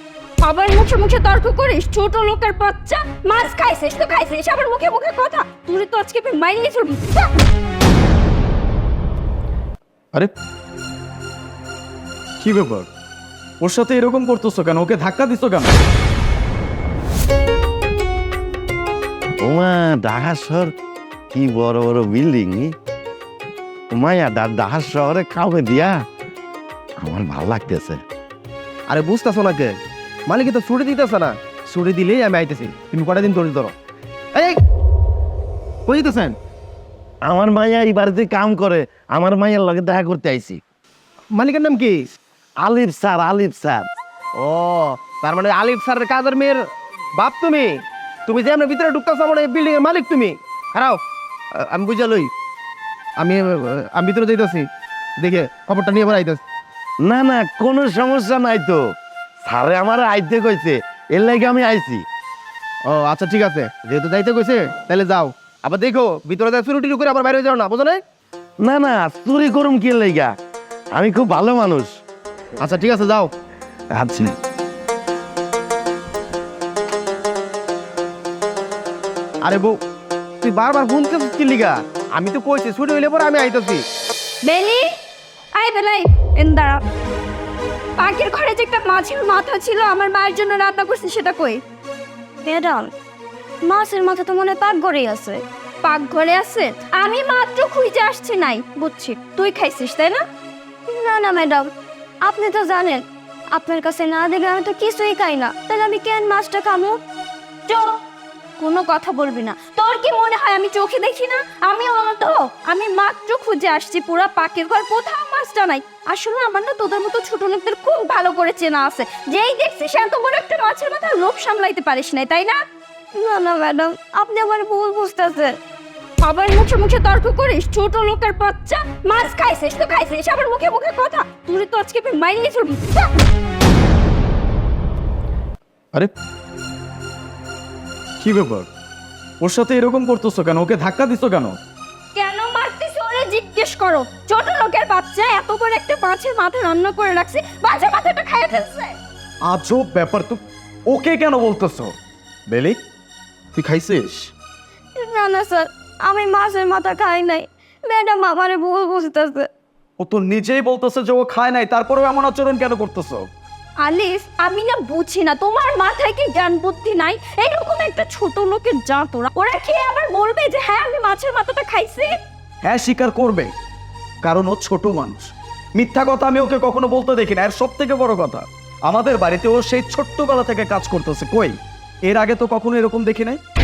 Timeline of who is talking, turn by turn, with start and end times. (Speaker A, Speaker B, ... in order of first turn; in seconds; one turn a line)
Speaker A: 0.4-7.3
Speaker B: 12.4-12.9
Speaker B: 13.6-15.8
Speaker C: 19.4-20.7
Speaker C: 21.3-22.7
Speaker C: 23.9-25.9
Speaker C: 27.0-28.0
Speaker D: 28.9-29.8
Speaker D: 30.3-33.7
Speaker D: 35.9-36.4
Speaker C: 37.3-40.6
Speaker D: 41.4-42.0
Speaker C: 42.6-43.8
Speaker D: 44.4-46.6
Speaker D: 47.2-51.0
Speaker D: 51.6-52.3
Speaker D: 53.2-56.4
Speaker C: 57.0-58.8
Speaker C: 59.4-62.0
Speaker D: 62.9-68.0
Speaker C: 68.6-70.3
Speaker C: 71.0-72.0
Speaker D: 72.6-73.3
Speaker B: 73.9-74.4
Speaker D: 79.5-79.8
Speaker D: 80.4-83.8
Speaker A: 84.4-84.9
Speaker A: 85.5-86.8
Speaker A: 88.0-91.6
Speaker A: 92.4-92.9
Speaker A: 93.6-100.2
Speaker A: 100.9-101.7
Speaker A: 102.2-107.0
Speaker A: 108.6-122.6
Speaker A: 123.2-125.6
Speaker A: 126.2-133.1
Speaker B: 138.2-138.7
Speaker B: 139.4-141.6
Speaker A: 142.2-149.0
Speaker B: 149.5-151.9
Speaker B: 152.5-152.8
Speaker B: 153.6-154.3
Speaker A: 155.0-159.5
Speaker B: 160.0-163.3
Speaker A: 163.8-172.1
Speaker B: 172.6-173.5
Speaker B: 174.2-181.6
Speaker B: 182.1-183.4